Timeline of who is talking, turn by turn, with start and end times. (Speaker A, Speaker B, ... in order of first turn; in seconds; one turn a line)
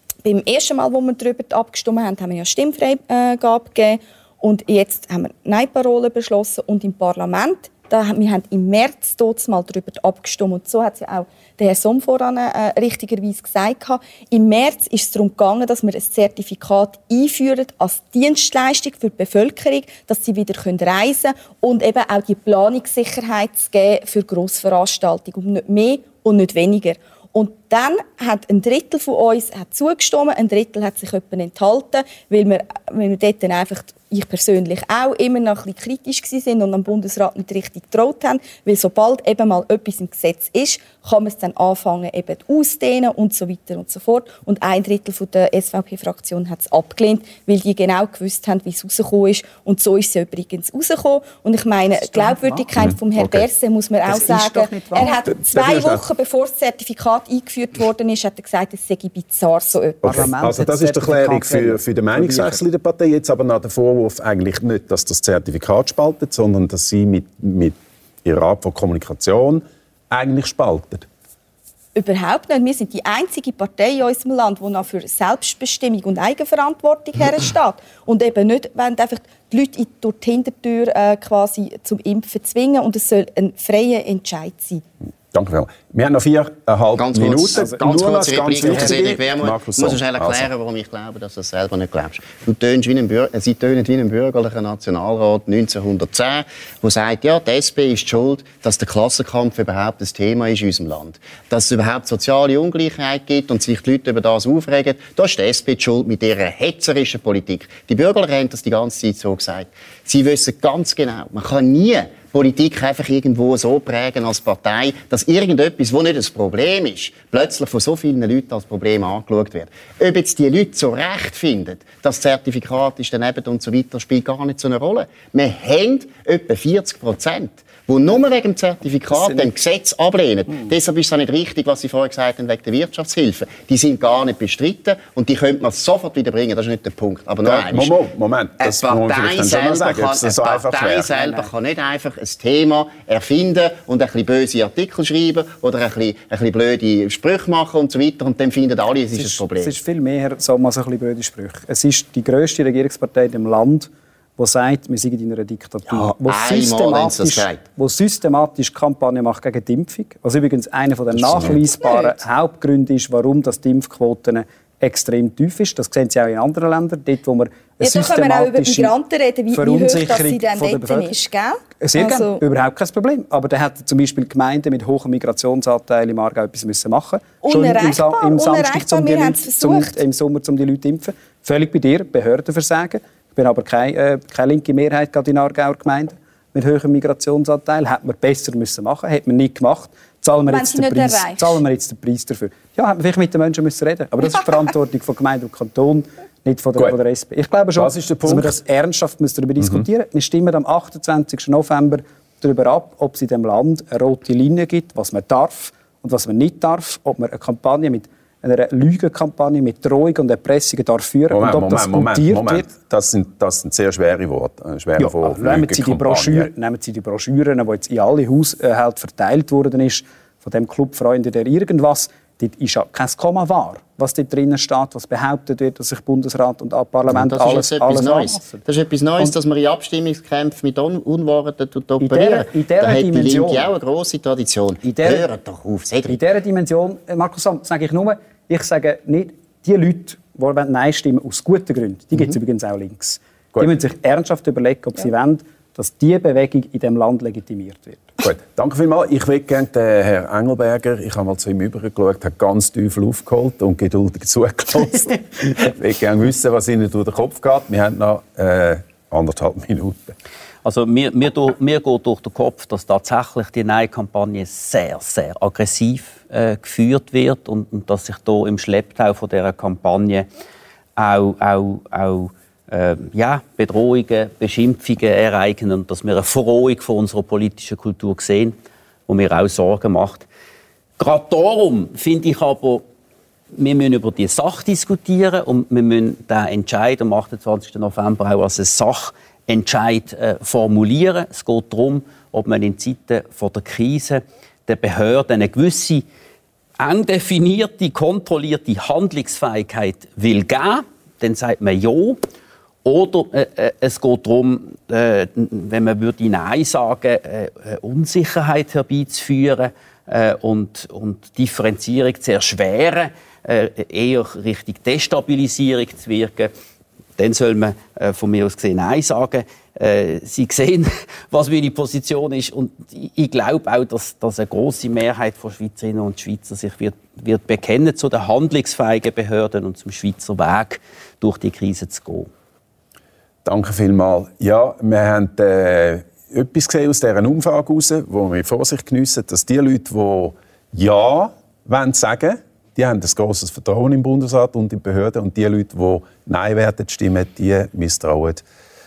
Speaker A: 0.2-60.3
Speaker B: 52.0-52.7
Speaker C: 52.8-53.4
Speaker B: 54.0-55.2
Speaker C: 55.0-56.0
Speaker C: 60.0-71.0
Speaker B: 60.0-62.6
Speaker A: 71.9-84.8
Speaker C: 85.3-90.5
Speaker D: 87.0-137.9
Speaker B: 88.5-89.0
Speaker B: 129.1-129.5
Speaker C: 137.4-141.1
Speaker D: 138.6-149.8
Speaker B: 141.1-141.5
Speaker B: 149.1-168.9
Speaker D: 155.9-157.6
Speaker C: 161.1-161.7
Speaker A: 167.8-172.4
Speaker B: 169.5-171.2
Speaker B: 171.8-212.7
Speaker A: 177.4-180.0
Speaker A: 190.5-191.6
Speaker C: 197.8-198.6
Speaker C: 211.3-216.5
Speaker B: 215.0-228.6
Speaker D: 227.1-236.2
Speaker B: 232.0-233.7
Speaker B: 234.8-235.3
Speaker B: 236.1-248.1
Speaker C: 248.2-260.2
Speaker E: 260.6-270.3
Speaker E: 271.0-278.6
Speaker E: 279.1-280.2
Speaker E: 281.0-282.8
Speaker E: 283.5-296.0
Speaker E: 296.8-302.2
Speaker E: 302.8-316.5
Speaker E: 317.2-332.3
Speaker C: 333.4-348.4